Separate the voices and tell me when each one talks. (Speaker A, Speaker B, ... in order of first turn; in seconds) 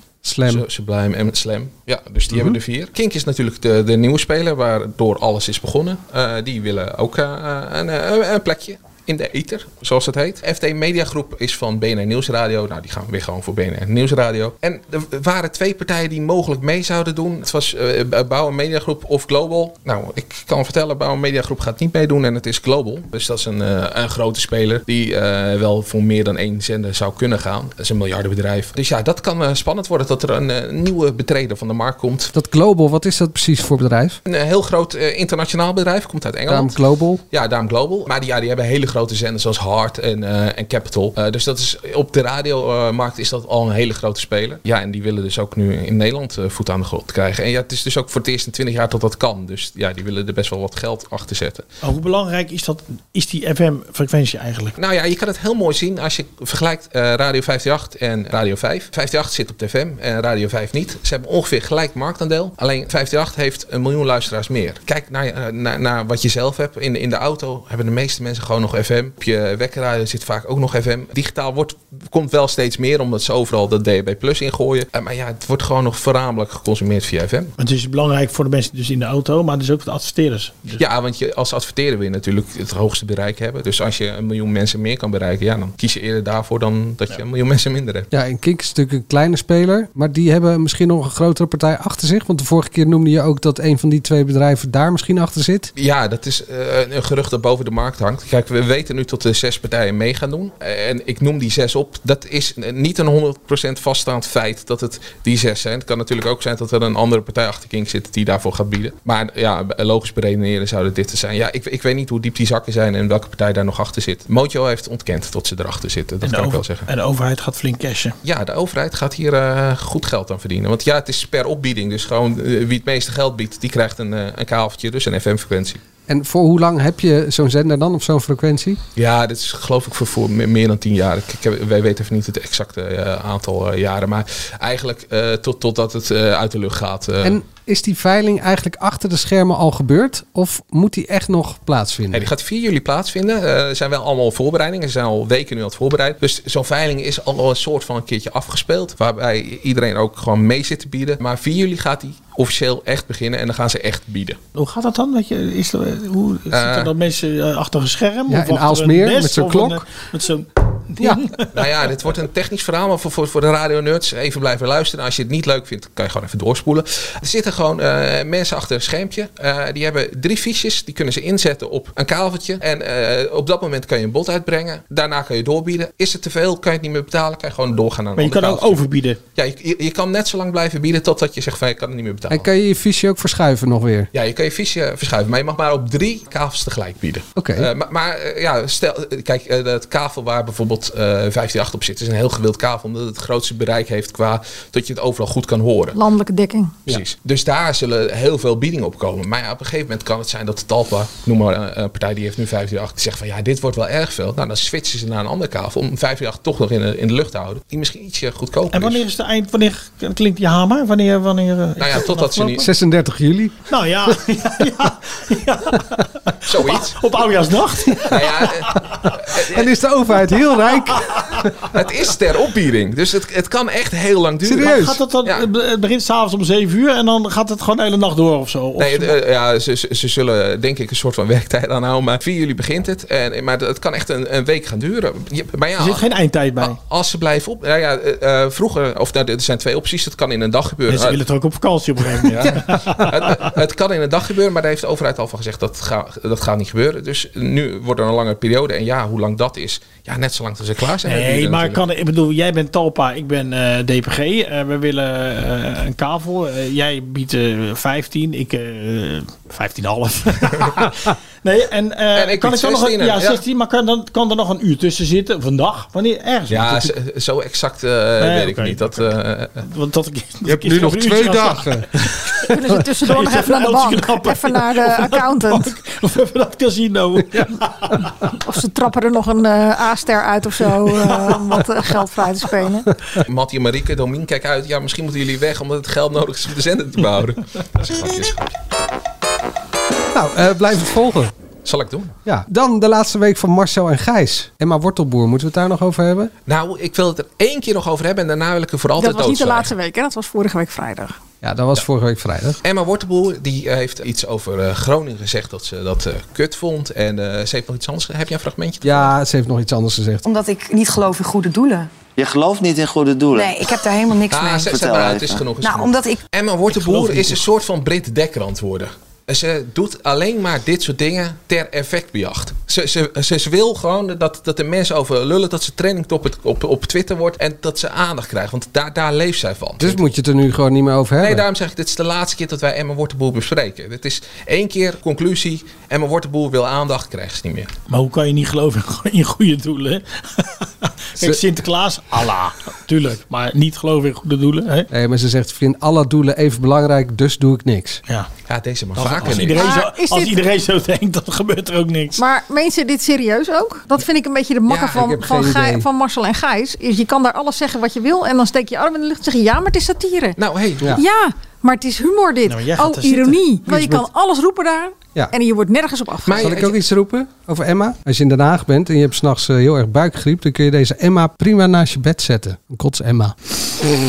Speaker A: 0.2-0.6, 32.3-34.2, 36.5-37.2, 88.1-95.7, 126.1-128.8, 137.2-142.3, 158.3-159.9, 182.3-184.1, 187.4-187.7, 212.6-214.1, 218.4-221.5, 224.4-225.0, 270.4-272.4, 290.1-291.3, 292.2-296.3, 301.4-302.6, 308.8-310.2, 329.8-331.4, 344.9-348.0, 354.9-355.9, 363.7-364.0, 366.4-373.4
Speaker B: 0.5-32.3, 34.2-36.8, 37.3-51.6, 54.8-77.5, 80.7-88.1, 95.8-116.9, 118.2-125.8, 128.9-137.4, 142.1-154.4, 156.5-156.9, 161.5-178.8, 179.3-182.5, 184.1-196.0, 196.9-209.0, 211.8-212.7, 216.5-217.0, 218.1-219.7, 221.7-225.5, 228.8-236.0, 236.6-241.2, 242.3-251.8, 262.1-263.4, 266.5-269.6, 283.2-288.6, 291.6-292.1, 296.5-299.7, 302.6-309.1, 314.3-330.0, 331.2-337.7, 348.5-349.6, 354.7-355.1, 360.4-361.0, 366.2-366.8
Speaker C: 51.8-54.8, 77.6-80.8, 116.2-118.2, 154.5-161.6, 178.2-179.2, 208.7-212.6, 213.7-218.8, 220.8-221.4, 224.6-229.1, 235.8-236.8, 240.9-243.5, 251.0-266.9, 268.2-269.1, 269.6-278.3, 281.0-281.8, 316.8-317.2, 337.9-344.9, 348.9-352.2, 362.4-363.4
Speaker D: 195.9-196.8, 272.5-275.8, 278.4-282.9, 299.0-301.1, 349.5-350.4, 352.1-366.5
Speaker E: 310.2-311.9, 313.3-314.8, 315.6-316.2
Speaker F: 312.2-313.6, 314.7-315.4